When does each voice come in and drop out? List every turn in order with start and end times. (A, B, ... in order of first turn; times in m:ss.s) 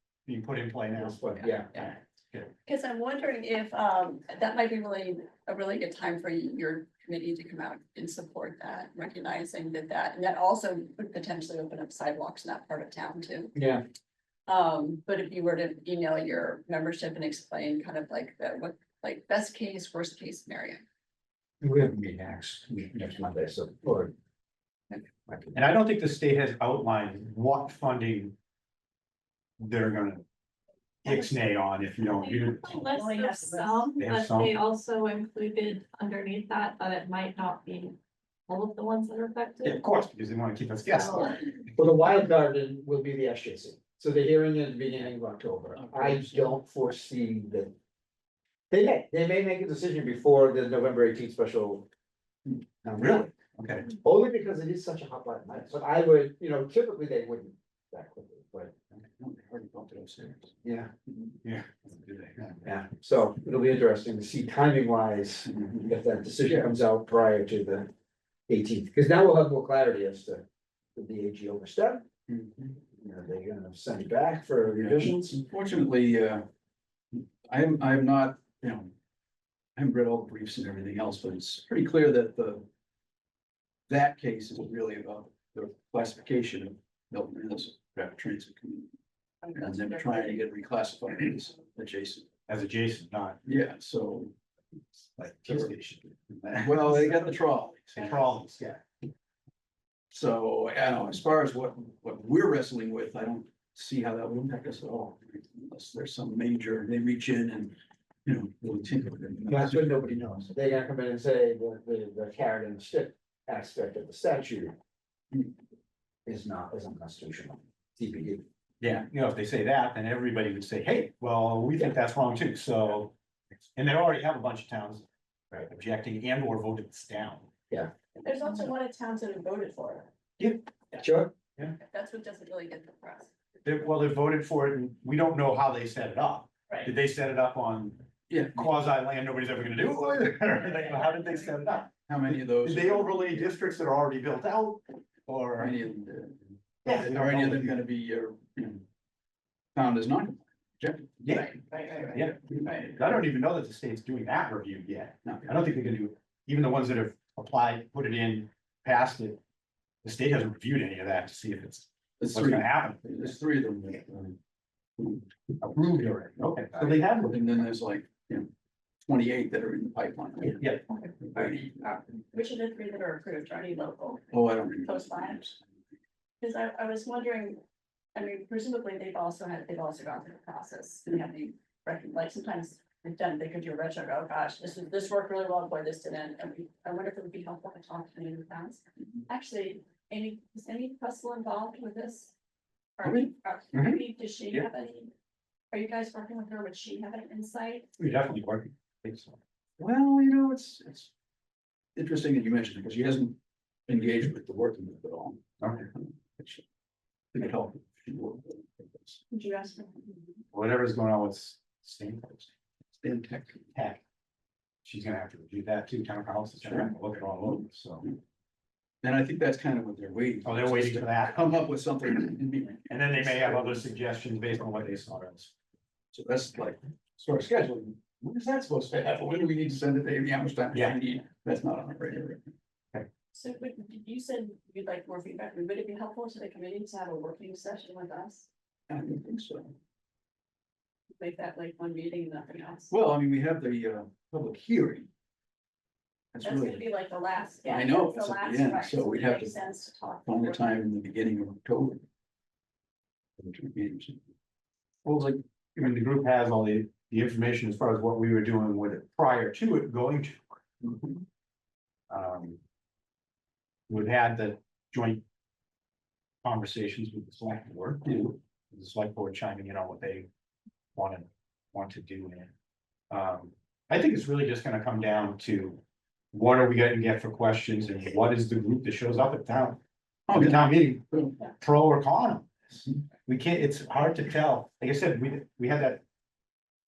0:00.2-0:01.2 A
0:00.9-0:01.8 B
0:01.7-0:02.5 A
0:02.6-0:13.5 C
0:13.5-0:13.8 B
0:14.5-0:20.8 C
0:21.6-0:24.1 B
0:25.2-0:25.6 B
0:25.5-0:28.4 A
0:29.6-0:30.2 A
0:31.0-0:32.8 A
0:32.2-0:38.0 D
0:32.9-0:33.9 C
0:34.0-0:34.5 A
0:38.5-0:39.8 D
0:39.6-0:41.6 A
0:40.9-0:41.4 D
0:41.7-0:47.7 B
0:45.7-0:46.5 E
0:48.7-0:51.9 B
0:52.8-0:53.3 B
0:53.0-0:53.9 A
0:53.9-0:58.7 B
0:59.0-1:00.6 E
1:00.6-1:00.9 B
1:01.4-1:02.7 A
1:02.6-1:07.9 B
1:05.6-1:05.9 E
1:08.5-1:12.0 B
1:12.3-1:12.8 E
1:12.9-1:15.4 B
1:14.8-1:16.5 E
1:17.1-1:18.9 E
1:19.8-1:22.6 E
1:23.9-1:28.9 E
1:29.4-1:30.5 C
1:29.5-1:32.3 E
1:32.5-1:33.4 A
1:33.4-1:34.3 E
1:35.2-1:37.3 A
1:36.6-1:38.3 E
1:37.9-1:38.8 A
1:40.1-1:49.9 E
1:49.5-1:54.8 B
1:56.2-1:58.4 B
1:58.8-2:03.1 A
2:03.7-2:05.0 A
2:05.6-2:07.5 A
2:08.2-2:10.1 C
2:10.4-2:11.0 A
2:11.0-2:11.3 B
2:11.8-2:13.3 C
2:13.6-2:25.8 A
2:18.3-2:18.7 E
2:22.1-2:23.5 E
2:25.6-2:28.8 E
2:26.8-2:27.8 A
2:29.7-2:31.2 E
2:31.2-2:31.6 A
2:31.3-2:32.9 C
2:32.1-2:39.4 A
2:40.0-2:43.2 A
2:42.2-2:44.4 E
2:45.6-2:47.4 A
2:46.8-2:48.5 E
2:49.0-2:52.0 E
2:50.4-2:50.8 A
2:51.3-2:51.9 A
2:52.3-2:55.4 C
2:54.3-2:55.6 E
2:56.4-2:57.6 C
2:58.1-3:12.3 C
3:13.0-3:15.1 C
3:13.7-3:14.7 A
3:15.7-3:17.9 C
3:18.0-3:19.4 A
3:19.8-3:21.1 E
3:22.0-3:26.6 E
3:25.6-3:25.9 A
3:27.3-3:29.2 E
3:29.3-3:30.4 C
3:30.5-3:32.5 A
3:33.0-3:33.6 E
3:33.7-3:34.0 A
3:34.8-3:38.1 A
3:36.6-3:36.9 E
3:39.0-3:43.9 E
3:40.4-3:41.6 A
3:42.9-3:45.5 A
3:46.1-3:52.5 E
3:50.7-3:51.0 A
3:53.3-3:58.5 C
3:58.9-3:59.8 E
4:01.2-4:02.9 C
4:02.9-4:05.1 E
4:06.3-4:06.8 E
4:06.4-4:10.7 C
4:07.7-4:09.6 E
4:10.2-4:12.0 E
4:13.4-4:14.2 E
4:15.0-4:20.6 A
4:20.9-4:21.2 E
4:22.1-4:22.6 A
4:23.9-4:25.2 A
4:26.4-4:30.3 A
4:30.9-4:32.5 A
4:33.1-4:46.0 A
4:40.3-4:40.6 E